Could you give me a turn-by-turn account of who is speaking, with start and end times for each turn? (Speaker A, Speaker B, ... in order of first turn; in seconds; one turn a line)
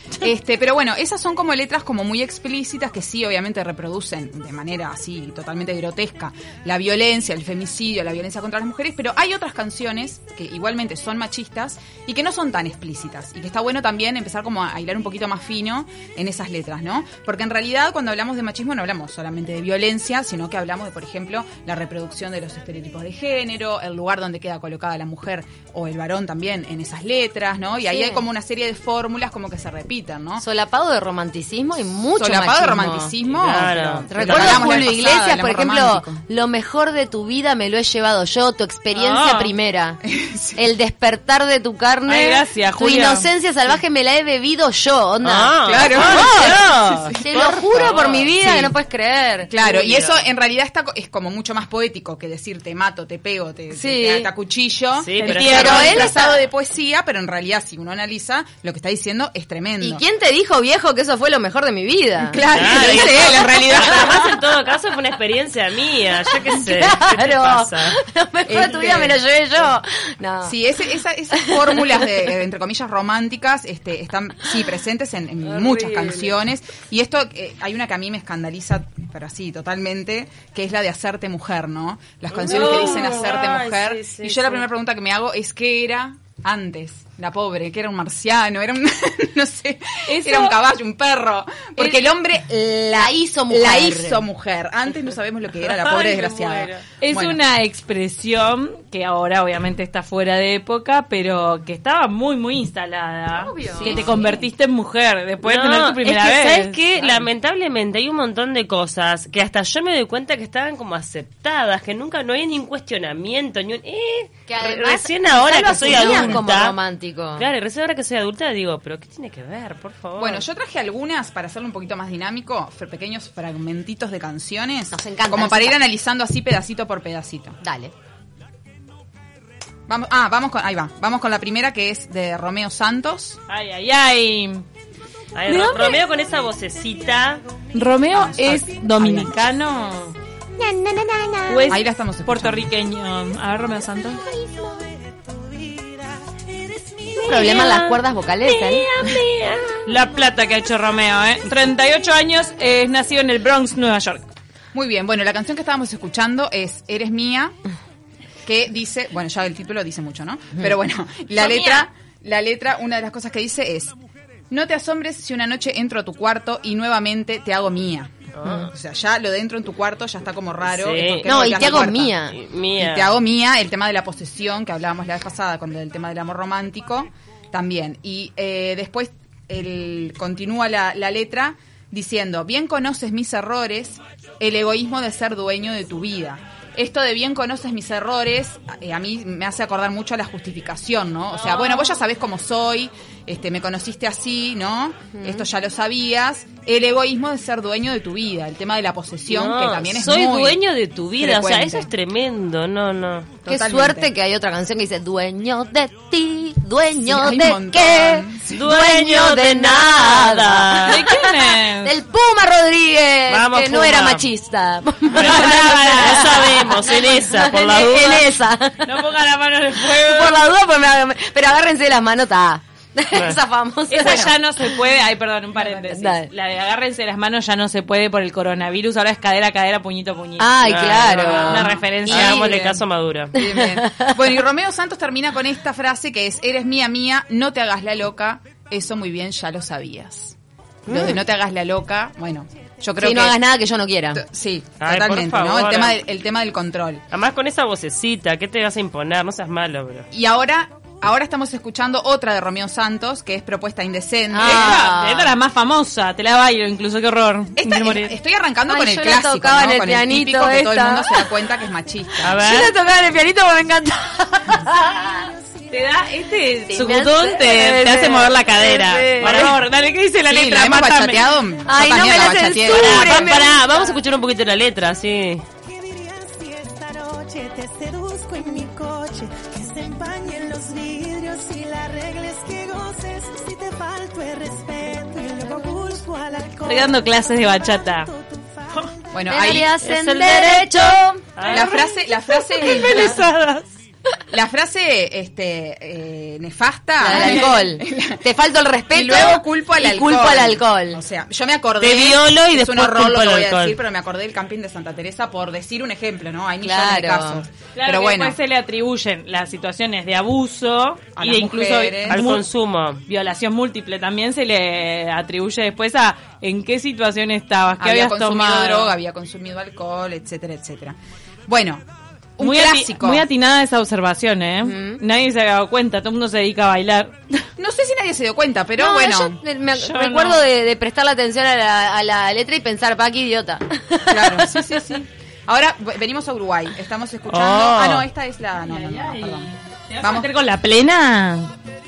Speaker A: 0.2-30.4
Speaker B: 27.9-28.2
Speaker B: 30.4-33.1
Speaker A: 32.1-36.2
Speaker C: 33.2-34.8
Speaker B: 34.1-40.0
Speaker D: 38.9-39.5
Speaker A: 40.0-40.6
Speaker B: 40.5-46.6
Speaker D: 42.1-43.3
Speaker C: 45.2-48.3
Speaker A: 45.6-48.7
Speaker B: 47.2-49.6
Speaker A: 49.5-60.0
Speaker C: 49.6-50.2
Speaker B: 53.7-54.2
Speaker C: 55.0-56.1
Speaker D: 55.2-56.1
Speaker B: 55.4-56.4
Speaker B: 59.8-64.3
Speaker A: 62.2-64.3
Speaker C: 62.5-68.0
Speaker B: 66.2-70.5
Speaker A: 68.5-69.2
Speaker A: 70.4-97.4
Speaker B: 71.3-72.1
Speaker C: 75.5-76.3
Speaker C: 82.3-84.6
Speaker D: 82.5-83.2
Speaker D: 90.0-90.6
Speaker B: 91.8-92.0
Speaker B: 92.9-94.2
Speaker C: 95.8-96.8
Speaker D: 97.0-106.8
Speaker B: 103.3-104.4
Speaker A: 103.8-104.2
Speaker C: 105.4-116.8
Speaker B: 114.5-117.4
Speaker A: 115.9-116.4
Speaker C: 117.4-120.4
Speaker A: 120.2-127.6
Speaker B: 124.9-125.8
Speaker B: 127.6-127.9
Speaker A: 129.9-133.4
Speaker D: 133.5-134.6
Speaker C: 135.3-137.4
Speaker D: 135.4-136.0
Speaker D: 137.7-140.2
Speaker A: 138.1-139.4
Speaker B: 140.6-141.8
Speaker D: 141.5-144.2
Speaker A: 141.7-142.7
Speaker E: 144.0-147.7
Speaker C: 147.2-149.8
Speaker B: 147.2-148.9
Speaker D: 149.8-154.2
Speaker A: 154.7-157.5
Speaker A: 158.4-164.0
Speaker D: 161.4-161.8
Speaker A: 164.5-200.6
Speaker C: 168.3-168.7
Speaker C: 170.7-171.5
Speaker B: 171.2-172.3
Speaker C: 172.3-173.1
Speaker B: 195.1-195.4
Speaker C: 199.3-203.3
Speaker A: 201.2-201.9
Speaker A: 203.4-204.1
Speaker B: 203.5-218.9
Speaker A: 207.0-208.6
Speaker C: 208.5-211.0
Speaker D: 210.9-211.9
Speaker C: 213.3-214.3
Speaker C: 215.1-218.3
Speaker D: 215.1-216.7
Speaker D: 218.8-220.5
Speaker B: 219.8-224.4
Speaker C: 223.1-223.4
Speaker D: 223.9-232.5
Speaker A: 224.0-224.3
Speaker B: 225.7-226.3
Speaker B: 230.4-232.5
Speaker C: 230.6-233.3
Speaker A: 231.1-232.8
Speaker A: 233.3-240.3
Speaker B: 233.3-234.3
Speaker C: 240.9-241.2
Speaker A: 240.9-243.4
Speaker B: 243.0-244.2
Speaker A: 244.1-247.0
Speaker C: 244.8-246.0
Speaker C: 247.1-250.1
Speaker A: 250.1-254.8
Speaker B: 254.3-255.3
Speaker D: 254.3-258.2
Speaker A: 257.6-262.5
Speaker B: 258.7-261.2
Speaker C: 262.2-262.7
Speaker B: 262.3-265.3
Speaker E: 264.8-266.2
Speaker D: 265.7-271.3
Speaker B: 266.7-269.5
Speaker C: 269.1-269.6
Speaker A: 270.2-273.3
Speaker B: 271.6-273.6
Speaker C: 272.6-275.4
Speaker E: 273.5-274.0
Speaker E: 275.6-289.1
Speaker D: 286.6-288.1
Speaker A: 289.1-289.7
Speaker B: 289.3-291.3
Speaker C: 289.8-291.7
Speaker D: 291.4-291.7
Speaker A: 291.4-293.2
Speaker D: 292.5-293.6
Speaker A: 294.3-298.3
Speaker B: 297.0-301.0
Speaker A: 298.9-308.4
Speaker C: 301.8-303.8
Speaker B: 306.6-307.4
Speaker D: 307.7-312.4
Speaker A: 311.1-312.2
Speaker C: 312.1-313.0
Speaker D: 313.0-318.9
Speaker A: 317.8-321.8
Speaker A: 322.4-323.2
Speaker D: 322.4-327.5
Speaker B: 324.6-325.0
Speaker A: 327.6-329.4
Speaker B: 328.8-334.9
Speaker D: 329.8-330.4
Speaker A: 334.1-340.3
Speaker C: 337.3-338.1
Speaker D: 338.6-341.5